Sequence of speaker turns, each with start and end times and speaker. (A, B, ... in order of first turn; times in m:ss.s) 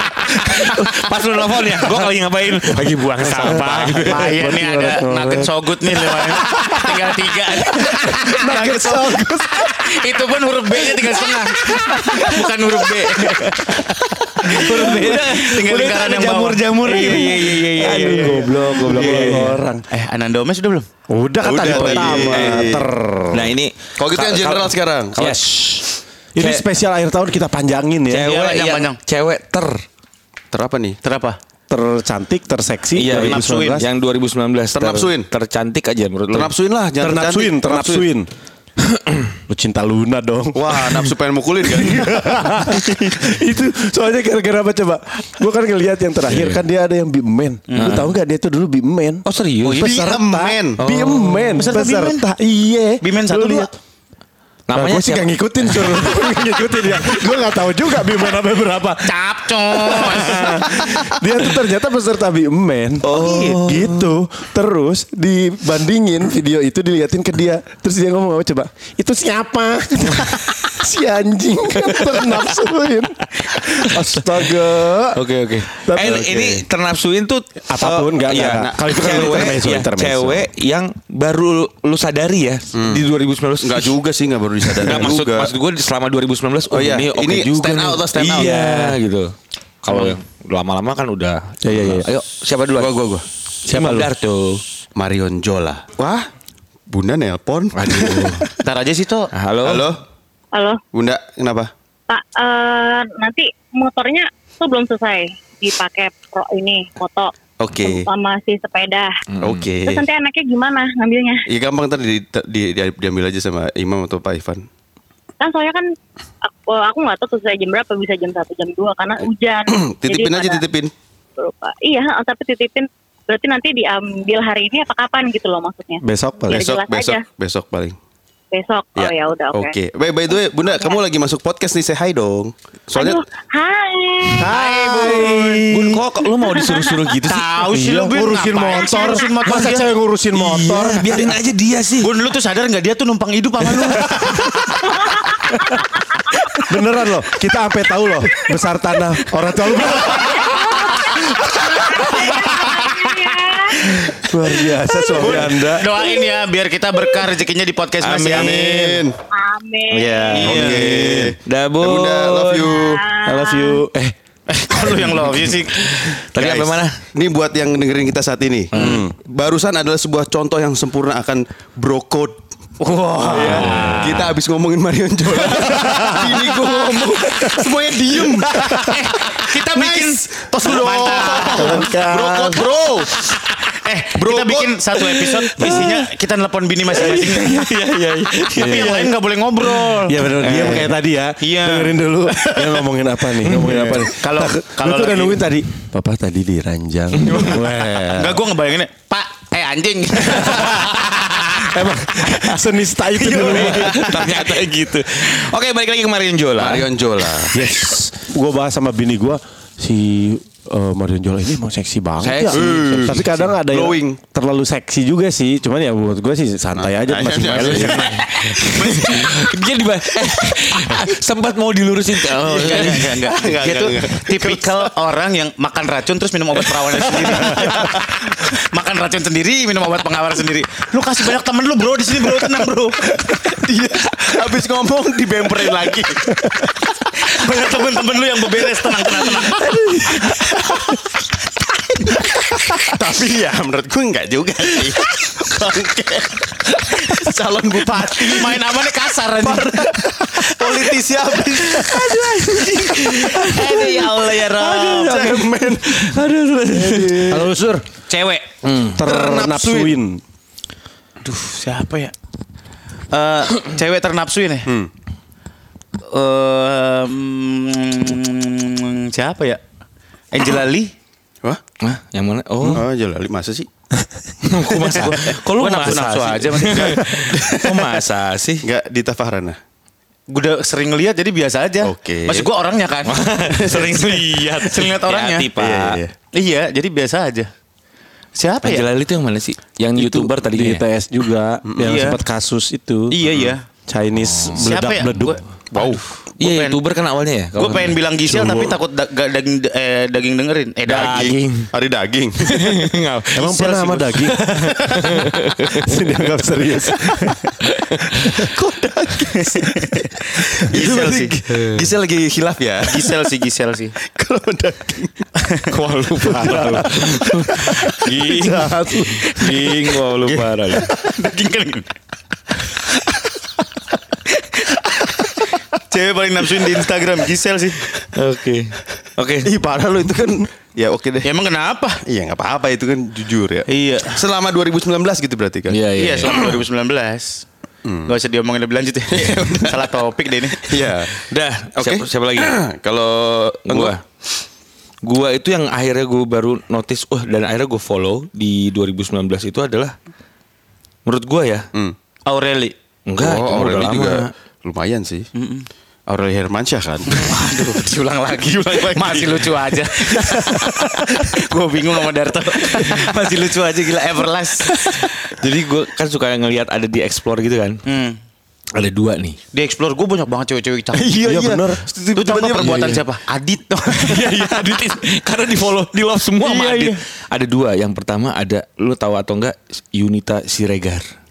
0:00.3-0:04.3 A
0:03.2-0:20.9 B
0:03.3-0:07.0 C
0:07.6-0:09.8 C
0:11.2-0:12.2 C
0:13.8-0:19.6 A
0:14.4-0:15.4 C
0:16.9-0:19.8 C
0:21.1-0:23.5 C
0:21.4-0:22.9 D
0:21.7-0:22.2 B
0:21.8-0:22.8 A
0:23.3-0:26.7 A
0:24.0-0:25.4 D
0:26.4-0:28.3 C
0:28.1-0:29.8 A
0:28.2-0:29.0 B
0:30.5-0:31.0 D
0:31.0-0:31.4 B
0:31.7-0:33.9 C
0:33.0-0:36.5 A
0:33.1-0:33.8 B
0:34.7-0:35.3 D
0:36.3-0:38.1 D
0:37.0-0:38.3 C
0:39.5-0:41.1 C
0:40.6-0:43.2 D
0:41.6-0:53.7 C
0:46.3-0:46.6 A
0:47.7-0:48.1 B
0:47.8-0:48.1 A
0:49.3-0:50.0 A
0:49.7-0:50.8 D
0:50.8-0:51.6 A
0:51.6-0:52.3 B
0:53.0-0:53.7 B
0:54.7-0:56.4 A
0:54.7-1:15.2 C
0:59.0-1:01.0 B
1:03.0-1:04.1 A
1:11.9-1:12.5 A
1:13.8-1:14.2 A
1:15.1-1:24.0 A
1:15.8-1:16.6 C
1:17.7-1:20.5 C
1:18.4-1:19.6 D
1:22.8-1:23.1 D
1:23.6-1:25.5 D
1:24.6-1:33.0 A
1:26.7-1:28.5 D
1:28.2-1:29.0 C
1:29.9-1:30.2 B
1:31.6-1:32.1 C
1:32.8-1:33.2 D
1:33.6-1:34.6 A
1:33.7-1:34.1 C
1:35.0-1:36.3 D
1:36.9-1:38.4 D
1:37.8-1:38.4 A
1:38.6-1:39.3 B
1:39.3-1:39.9 A
1:39.6-1:40.0 D
1:40.5-1:40.8 E
1:40.9-1:41.7 D
1:42.1-1:49.2 E
1:47.6-1:48.1 D
1:49.3-1:49.6 A
1:49.4-1:50.1 D
1:49.8-1:51.4 E
1:51.5-1:54.7 D
1:55.4-1:55.9 E
1:56.4-2:00.6 E
1:59.7-2:00.9 D
2:01.4-2:07.2 E
2:06.0-2:06.6 C
2:06.5-2:08.0 D
2:08.5-2:09.8 E
2:09.0-2:13.2 D
2:10.6-2:11.0 E
2:13.0-2:14.6 E
2:14.4-2:16.0 C
2:14.4-2:15.6 B
2:15.6-2:17.5 A
2:16.2-2:17.1 E
2:17.3-2:19.9 B
2:17.4-2:21.4 C
2:18.7-2:19.4 E
2:20.3-2:22.1 A
2:22.0-2:24.4 B
2:25.0-2:25.3 E
2:26.7-2:30.6 C
2:30.2-2:33.8 E
2:31.6-2:32.3 C
2:34.0-2:35.9 C
2:35.2-2:38.6 B
2:35.9-2:36.3 E
2:36.9-2:37.3 E
2:38.0-2:39.1 A
2:38.3-2:39.2 D
2:39.3-2:40.5 E
2:39.9-2:42.8 A
2:40.0-2:43.0 D
2:40.3-2:41.3 B
2:42.7-2:43.8 E
2:43.2-2:44.2 C
2:44.5-2:46.5 B
2:45.0-2:46.9 A
2:46.4-2:52.4 D
2:48.7-2:49.0 A
2:48.8-2:49.1 C
2:52.8-2:54.0 B
2:53.2-3:03.3 D
2:53.3-2:54.3 A
2:55.7-2:56.4 C
2:58.5-2:59.0 C
2:58.8-3:02.6 B
3:01.5-3:02.7 C
3:03.2-3:07.7 B
3:04.2-3:05.7 D
3:05.6-3:06.0 A
3:06.9-3:09.0 A
3:08.5-3:12.8 B
3:08.6-3:09.1 C
3:10.0-3:18.4 C
3:10.5-3:10.8 A
3:13.4-3:14.1 A
3:14.1-3:15.5 B
3:17.2-3:17.6 A
3:18.0-3:21.7 B
3:21.7-3:24.2 C
3:23.2-3:24.6 B
3:23.4-3:27.3 A
3:26.6-3:27.6 D
3:27.5-3:38.2 C
3:32.2-3:33.5 A
3:32.5-3:34.2 D
3:36.7-3:38.9 D
3:37.5-3:43.2 A
3:38.6-3:39.5 B
3:42.4-3:53.4 B
3:42.5-3:44.9 D
3:47.2-3:47.5 A
3:53.3-3:56.5 D
3:57.2-3:59.8 B
3:59.7-4:00.2 A
3:59.7-4:00.8 D
4:02.3-4:08.7 D
4:06.9-4:10.0 B
4:09.4-4:16.2 D
4:10.5-4:11.4 B
4:11.6-4:17.5 A
4:13.5-4:15.2 B
4:16.7-4:17.4 D
4:17.3-4:17.8 C
4:18.1-4:18.5 B
4:18.6-4:19.1 A
4:19.0-4:20.2 C
4:19.0-4:19.9 D
4:21.2-4:22.1 B
4:23.1-4:24.7 B
4:26.1-4:29.6 B
4:30.3-4:30.9 B
4:31.8-4:32.9 A
4:32.6-4:33.7 D
4:34.4-4:38.7 A
4:34.7-4:35.2 D
4:35.0-4:37.5 B
4:37.4-4:37.7 D
4:38.6-4:39.6 D
4:40.3-4:45.5 B
4:41.8-4:42.5 D
4:43.1-4:46.0 A
4:43.7-4:43.9 D
4:45.6-4:46.1 D
4:46.3-4:47.5 B
4:48.4-4:48.9 B
4:48.6-4:50.8 A
4:50.0-4:53.1 C
4:51.7-4:52.0 D
4:51.8-4:52.2 B
4:53.1-4:53.6 B
4:53.2-4:53.5 D
4:53.9-4:55.4 C
4:54.2-4:54.6 A
4:54.6-4:56.8 B
4:55.7-4:56.0 D
4:56.4-4:58.0 A
4:57.6-5:01.4 B
4:58.3-4:58.8 D
5:00.9-5:02.9 D
5:00.9-5:01.7 A
5:02.4-5:03.6 A
5:03.3-5:07.5 C
5:03.4-5:04.3 B
5:05.0-5:08.2 A
5:08.4-5:13.2 D
5:09.4-5:11.3 B
5:11.5-5:11.9 A
5:12.9-5:14.0 B
5:14.1-5:18.0 D
5:16.2-5:20.9 A
5:16.4-5:16.9 C
5:18.4-5:19.4 C
5:20.3-5:21.0 D
5:21.0-5:21.9 B
5:24.3-5:27.9 B
5:28.1-5:29.5 A
5:29.4-5:31.3 D
5:31.2-5:32.0 B
5:32.0-5:36.4 D
5:33.7-5:34.2 B
5:35.7-5:36.6 A
5:35.9-5:37.4 B
5:37.8-5:38.1 D
5:38.1-5:40.8 B
5:39.1-5:40.0 D
5:40.6-5:41.2 D
5:41.3-5:42.6 A
5:41.8-5:44.0 D
5:43.7-5:44.0 A
5:45.0-5:49.9 A
5:51.1-5:51.7 A
5:52.3-5:52.8 B
5:53.1-5:54.3 A
5:53.2-5:55.3 D
5:55.4-5:55.7 B
5:56.1-5:57.2 D
5:57.1-6:05.1 B
5:58.4-5:59.5 D
6:05.2-6:07.8 A
6:07.9-6:08.2 B
6:08.8-6:09.4 A
6:09.5-6:11.3 B
6:11.0-6:13.0 D
6:11.2-6:11.8 C
6:12.1-6:14.4 B
6:14.0-6:21.1 A
6:16.4-6:17.0 B